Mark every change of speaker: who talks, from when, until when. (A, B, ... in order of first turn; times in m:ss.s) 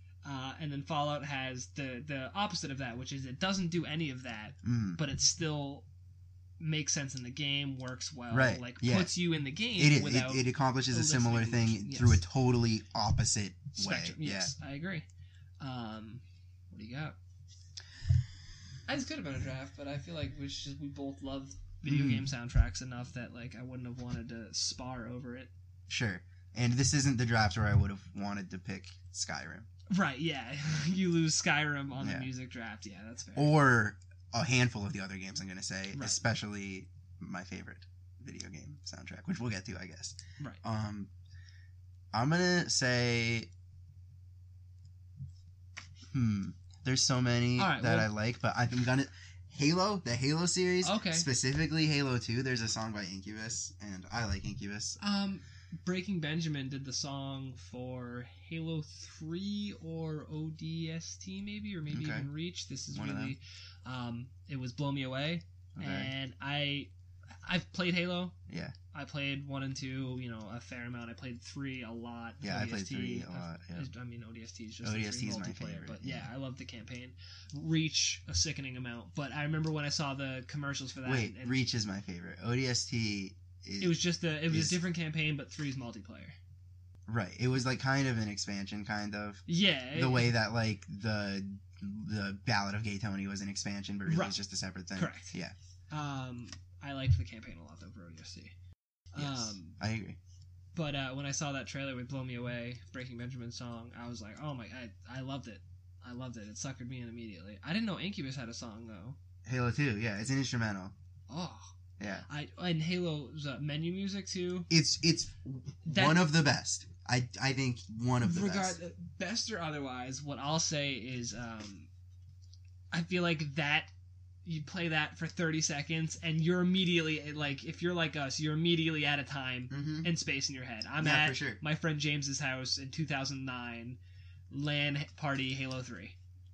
0:00.2-0:05.9 A
0:04.6-0:05.0 B
0:06.6-0:12.2 A
0:08.3-0:09.1 B
0:09.8-0:14.5 B
0:13.8-0:15.1 A
0:15.6-0:17.2 A
0:18.9-0:25.5 A
0:21.9-0:22.3 B
0:25.9-0:29.7 B
0:29.9-0:33.6 A
0:32.0-0:32.3 B
0:33.4-0:41.1 B
0:35.9-0:36.2 A
0:42.1-0:43.5 B
0:46.1-0:55.0 B
0:47.6-0:48.1 A
0:50.8-0:51.3 A
0:55.0-1:06.9 A
1:01.9-1:02.3 B
1:02.9-1:03.4 B
1:05.8-1:06.1 B
1:07.4-1:08.4 A
1:08.5-1:08.8 B
1:08.9-1:21.6 A
1:12.4-1:13.9 B
1:14.8-1:16.3 B
1:21.0-1:24.8 B
1:23.8-1:26.4 A
1:27.1-1:35.5 B
1:29.5-1:30.3 A
1:34.1-1:34.4 A
1:35.0-1:35.4 A
1:35.9-1:38.5 A
1:39.1-1:39.8 A
1:39.2-1:40.2 B
1:40.8-1:49.2 A
1:49.4-1:50.9 B
1:51.3-1:51.7 A
1:52.0-1:52.3 B
1:52.3-1:54.7 A
1:54.7-1:58.8 B
1:55.9-1:56.3 A
1:58.2-2:01.9 A
2:02.9-2:03.9 A
2:04.4-2:14.0 A
2:09.7-2:10.1 B
2:11.0-2:11.6 B
2:14.5-2:16.2 A